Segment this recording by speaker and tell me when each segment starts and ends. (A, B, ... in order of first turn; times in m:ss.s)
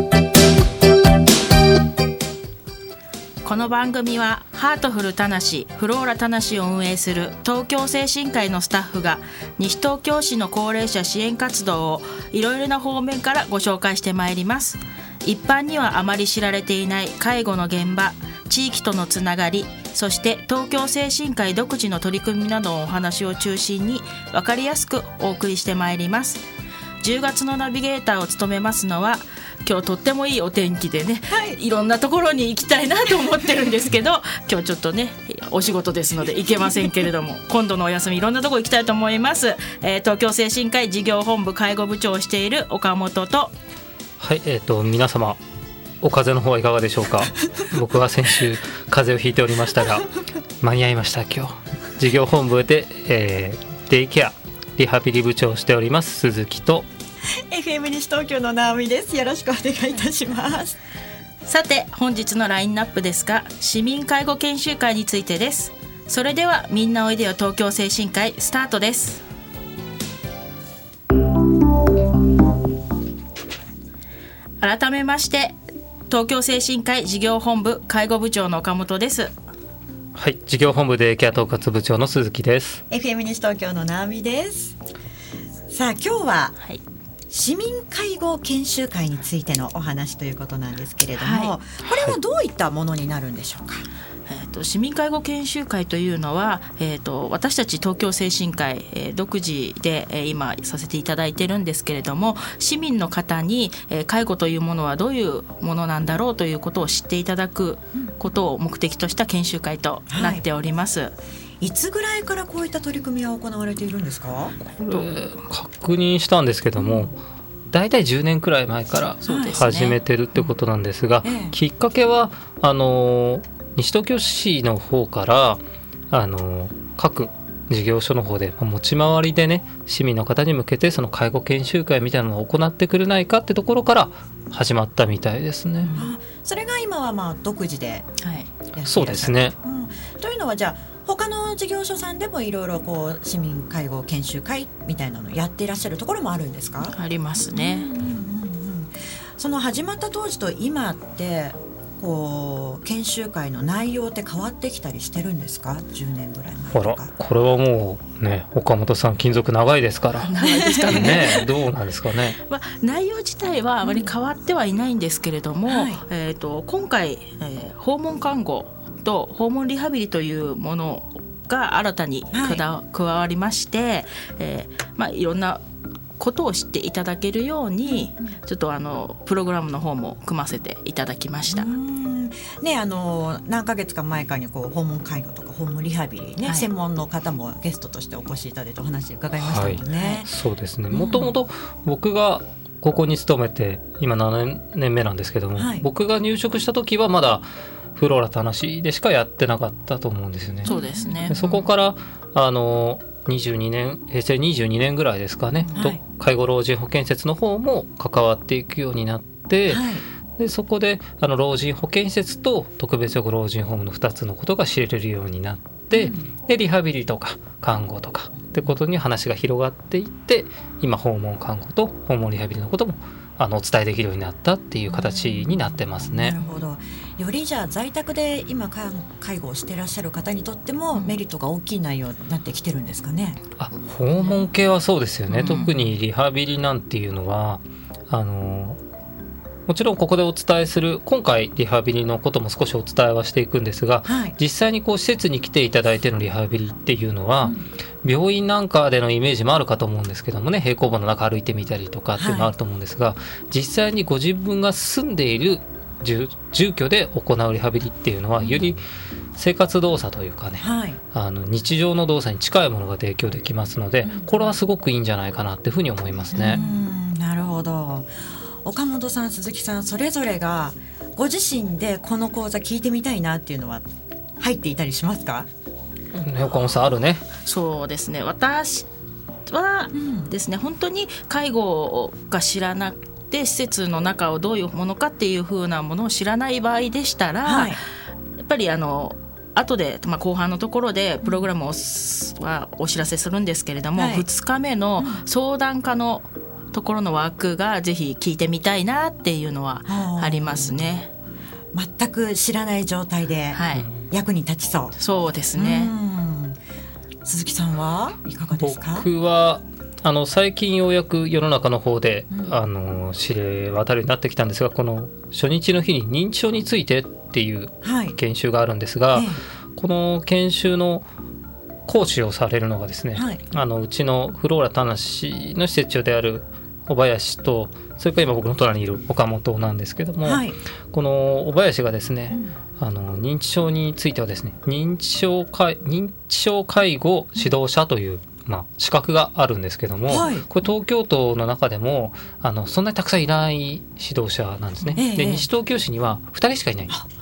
0:03.4-0:26.4 A
0:27.0-0:43.5 A
0:31.3-0:31.6 B
0:44.2-0:45.4 C
0:46.0-0:50.1 C
0:50.6-0:56.8 C
0:57.5-1:00.8 B
1:01.4-1:09.2 A
1:14.6-1:15.5 A
1:16.1-1:19.3 A
1:20.2-1:22.8 C
1:22.9-1:24.8 B
1:25.7-1:26.6 B
1:27.3-1:33.8 B
1:31.2-1:31.5 A
1:31.9-1:32.2 C
1:34.2-1:51.1 A
1:50.1-1:50.4 B
1:51.6-1:54.6 B
1:54.6-1:57.1 C
1:56.8-1:57.1 B
1:57.7-2:05.6 C
1:59.2-2:00.0 A
1:59.3-1:59.6 B
2:01.2-2:01.5 B
2:06.1-2:15.9 C
2:15.8-2:16.2 A
2:15.9-2:18.1 B
2:18.2-2:18.5 A
2:18.7-2:26.9 B
2:18.9-2:19.5 C
2:26.8-2:27.9 A
2:27.5-2:37.1 B
2:36.7-2:40.3 C
2:40.2-2:41.5 A
2:40.4-2:41.5 B
2:40.9-2:42.4 C
2:42.4-2:55.6 A
2:43.8-2:44.1 B
2:45.7-2:46.0 B
2:52.3-2:52.6 B
2:56.2-3:01.7 A
3:01.5-3:10.3 B
3:09.4-3:20.7 C
3:09.9-3:10.2 A
3:10.9-3:11.3 B
3:15.6-3:15.8 B
3:20.6-3:21.6 A
3:20.6-3:21.6 B
3:21.3-3:29.8 C
3:25.6-3:26.0 A
3:25.7-3:26.0 B
3:29.7-3:30.0 B
3:30.4-3:46.4 C
3:35.9-3:36.3 B
3:44.9-3:53.4 B
3:53.6-3:58.8 C
3:55.3-3:55.8 A
3:55.4-3:55.8 B
3:59.7-4:18.8 C
4:04.1-4:04.4 B
4:12.2-4:12.5 B
4:19.4-4:26.6 C
4:20.6-4:21.0 B
4:24.0-4:24.5 B
4:26.3-4:33.9 B
4:26.5-4:26.8 A
4:34.4-4:35.5 B
4:36.1-4:37.2 C
4:37.4-4:38.9 A
4:39.5-4:47.8 A
4:39.9-4:40.3 B
4:47.4-4:47.8 B
4:48.4-5:01.1 A
4:54.0-4:54.2 B
4:59.9-5:00.9 B
5:01.7-5:04.9 B
5:03.5-5:03.9 A
5:03.7-5:04.1 C
5:05.0-5:05.9 A
5:05.5-5:06.6 B
5:07.2-5:09.1 B
5:08.5-5:21.0 C
5:17.8-5:18.2 B
5:19.1-5:19.4 B
5:21.9-5:46.9 C
5:23.1-5:23.4 B
5:30.2-5:30.6 B
5:40.1-5:40.5 B
5:44.9-5:45.5 B